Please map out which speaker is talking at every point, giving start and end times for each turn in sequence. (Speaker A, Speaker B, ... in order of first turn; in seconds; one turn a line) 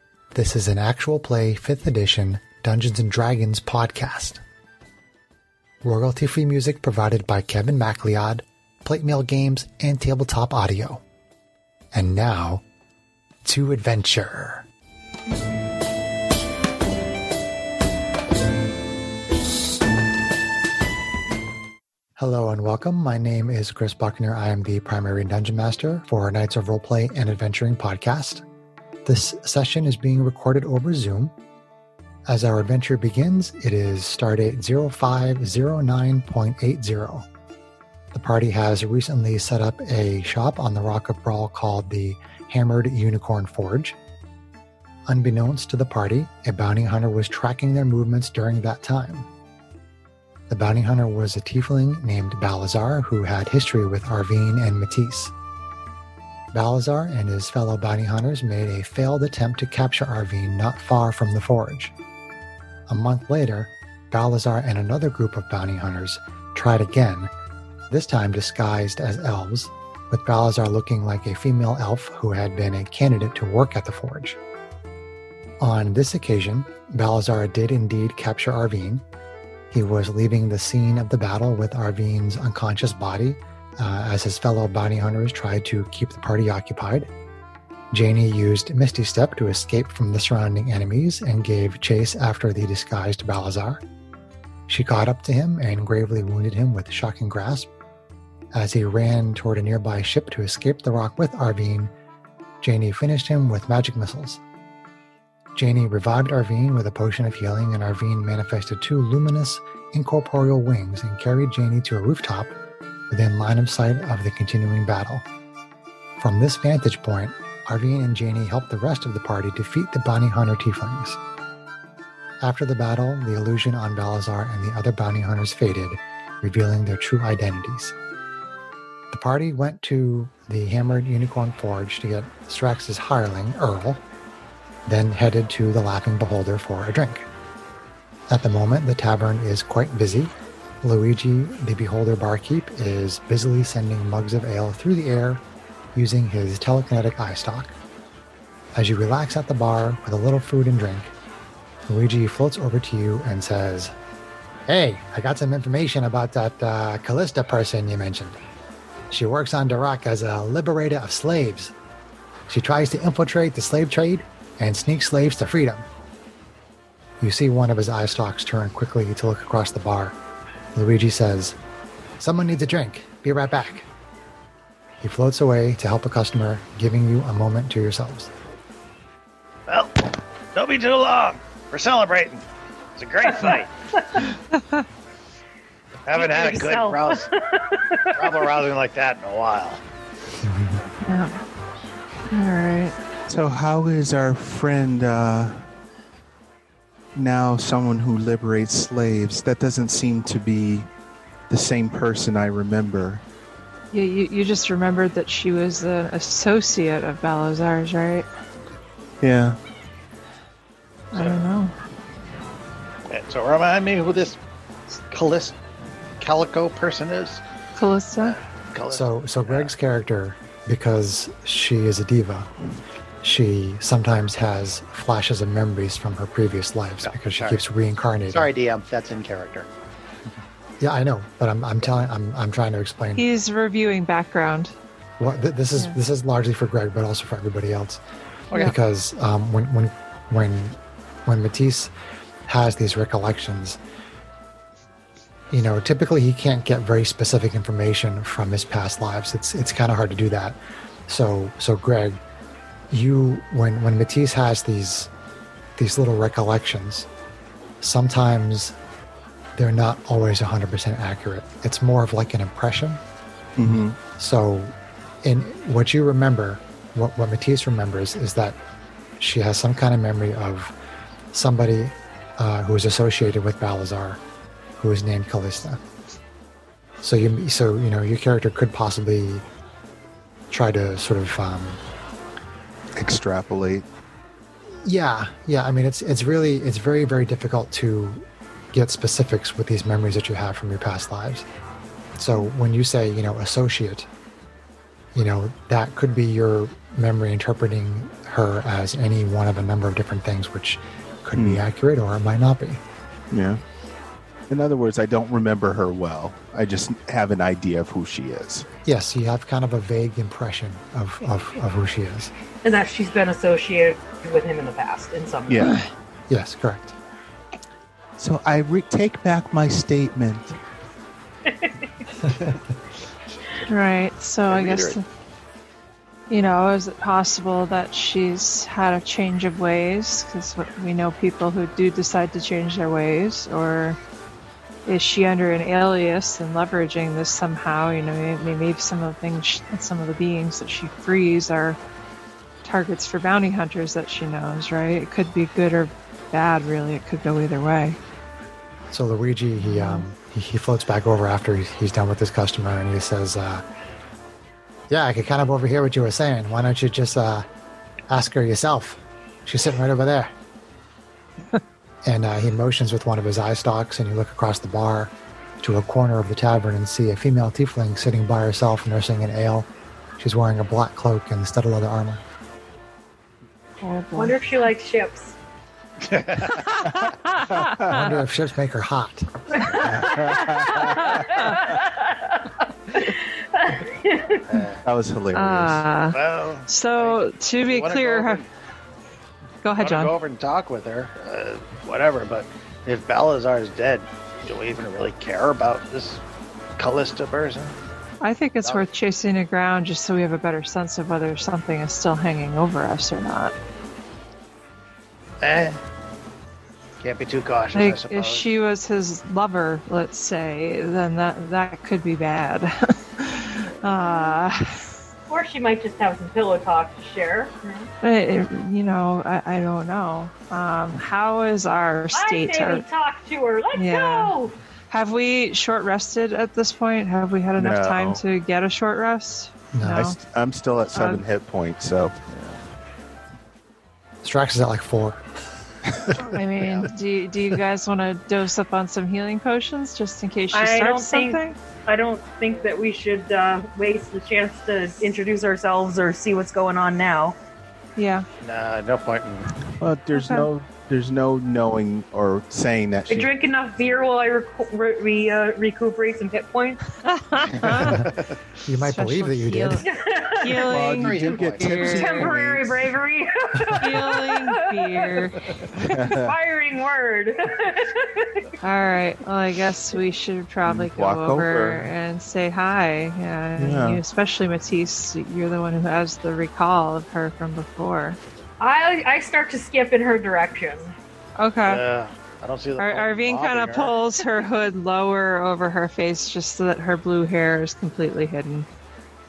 Speaker A: 0.3-4.4
Speaker A: 5.8-11.0
Speaker A: 11.9-12.6
Speaker A: 13.4-14.7
Speaker A: 22.2-28.4
Speaker A: 29.1-31.3
Speaker A: 32.3-37.3
Speaker A: 38.1-44.0
Speaker A: 45.1-49.3
Speaker A: 50.5-55.3
Speaker A: 56.5-61.9
Speaker A: 62.9-67.3
Speaker A: 67.9-74.4
Speaker A: 75.6-79.0
Speaker A: 79.7-87.1
Speaker A: 87.9-93.8
Speaker A: 94.7-97.7
Speaker A: 98.5-101.9
Speaker A: 102.6-104.4
Speaker A: 105.5-112.5
Speaker A: 113.1-115.2
Speaker A: 116.2-121.2
Speaker A: 122.4-128.0
Speaker A: 129.1-134.0
Speaker A: 134.9-137.3
Speaker A: 138.3-147.8
Speaker A: 148.8-151.1
Speaker A: 151.9-153.9
Speaker A: 154.7-158.4
Speaker A: 159.1-161.7
Speaker A: 162.5-165.9
Speaker A: 167.2-170.2
Speaker A: 170.8-171.6
Speaker A: 172.2-173.9
Speaker A: 175.0-178.3
Speaker B: 179.7-182.4
Speaker B: 183.0-183.7
Speaker B: 186.1-187.3
Speaker C: 186.1-188.5
Speaker B: 188.2-189.8
Speaker A: 190.4-190.8
Speaker D: 191.1-191.4
Speaker D: 192.3-192.9
Speaker E: 193.3-195.7
Speaker E: 197.2-200.9
Speaker E: 201.5-203.2
Speaker D: 203.9-208.3
Speaker E: 209.2-209.6
Speaker D: 211.1-211.7
Speaker B: 211.2-211.4
Speaker B: 213.1-214.4
Speaker B: 215.1-215.6
Speaker B: 216.2-217.4
Speaker D: 217.8-218.4
Speaker B: 218.3-219.7
Speaker A: 218.9-222.5
Speaker A: 223.2-228.5
Speaker B: 227.0-227.6
Speaker B: 228.3-229.7
Speaker A: 230.8-233.3
Speaker D: 233.2-234.7
Speaker A: 235.2-238.0
Speaker A: 238.6-241.9
Speaker A: 242.5-243.8
Speaker A: 245.5-252.2
Speaker A: 252.9-255.1
Speaker A: 255.8-257.1
Speaker A: 257.8-258.8
Speaker A: 259.6-263.0
Speaker E: 263.6-264.0
Speaker A: 264.1-268.6
Speaker A: 269.2-270.7
Speaker A: 271.3-274.2
Speaker A: 274.8-275.8
Speaker A: 277.0-279.4
Speaker A: 280.5-281.8
Speaker E: 283.0-283.9
Speaker A: 284.8-291.4
Speaker A: 292.2-294.1
Speaker A: 295.1-302.8
Speaker E: 303.3-303.6
Speaker E: 304.5-308.7
Speaker A: 308.9-312.3
Speaker C: 312.6-315.8
Speaker E: 315.5-315.8
Speaker A: 316.3-316.9
Speaker E: 318.2-320.5
Speaker C: 321.5-321.8
Speaker D: 323.7-325.0
Speaker B: 324.5-325.0
Speaker D: 326.3-334.0
Speaker D: 334.9-341.8
Speaker D: 342.6-348.0
Speaker A: 348.9-353.6
Speaker D: 349.6-350.0
Speaker A: 354.9-357.5
Speaker A: 358.1-360.3
Speaker A: 362.1-372.2
Speaker D: 373.8-374.4
Speaker C: 374.2-375.4
Speaker B: 376.0-376.7
Speaker E: 376.9-378.1
Speaker D: 377.4-378.0
Speaker A: 377.9-379.6
Speaker C: 379.6-384.6
Speaker E: 379.7-381.5
Speaker B: 384.5-384.8
Speaker E: 384.8-385.8
Speaker D: 385.3-388.4
Speaker B: 386.1-388.5
Speaker D: 389.6-390.1
Speaker B: 389.8-396.2
Speaker B: 396.8-397.8
Speaker D: 398.2-403.6
Speaker B: 405.4-405.8
Speaker B: 407.0-408.5
Speaker D: 407.7-414.9
Speaker C: 414.0-414.4
Speaker C: 415.3-417.9
Speaker D: 418.0-422.9
Speaker C: 422.1-424.6
Speaker D: 423.8-424.4
Speaker D: 424.9-430.2
Speaker E: 427.6-428.2
Speaker A: 429.7-430.1
Speaker E: 429.9-432.1
Speaker D: 430.9-431.2
Speaker B: 432.3-432.6
Speaker A: 434.2-435.2
Speaker D: 436.3-441.6
Speaker B: 436.6-436.9
Speaker C: 440.5-447.4
Speaker D: 448.0-448.3
Speaker B: 448.4-449.5
Speaker E: 449.8-453.3
Speaker D: 450.1-450.5
Speaker C: 453.1-456.8
Speaker D: 457.1-458.1
Speaker A: 457.8-458.1
Speaker B: 457.9-458.2
Speaker A: 458.6-459.8
Speaker D: 458.8-459.9
Speaker C: 459.8-460.6
Speaker D: 460.4-462.3
Speaker E: 460.6-462.9
Speaker B: 460.9-461.9
Speaker C: 461.8-465.3
Speaker D: 463.8-465.4
Speaker E: 465.8-466.4
Speaker C: 465.9-468.5
Speaker D: 468.6-478.2
Speaker E: 470.6-471.9
Speaker E: 473.6-474.0
Speaker C: 478.6-480.9
Speaker D: 481.4-481.8
Speaker B: 481.7-483.9
Speaker D: 482.8-488.7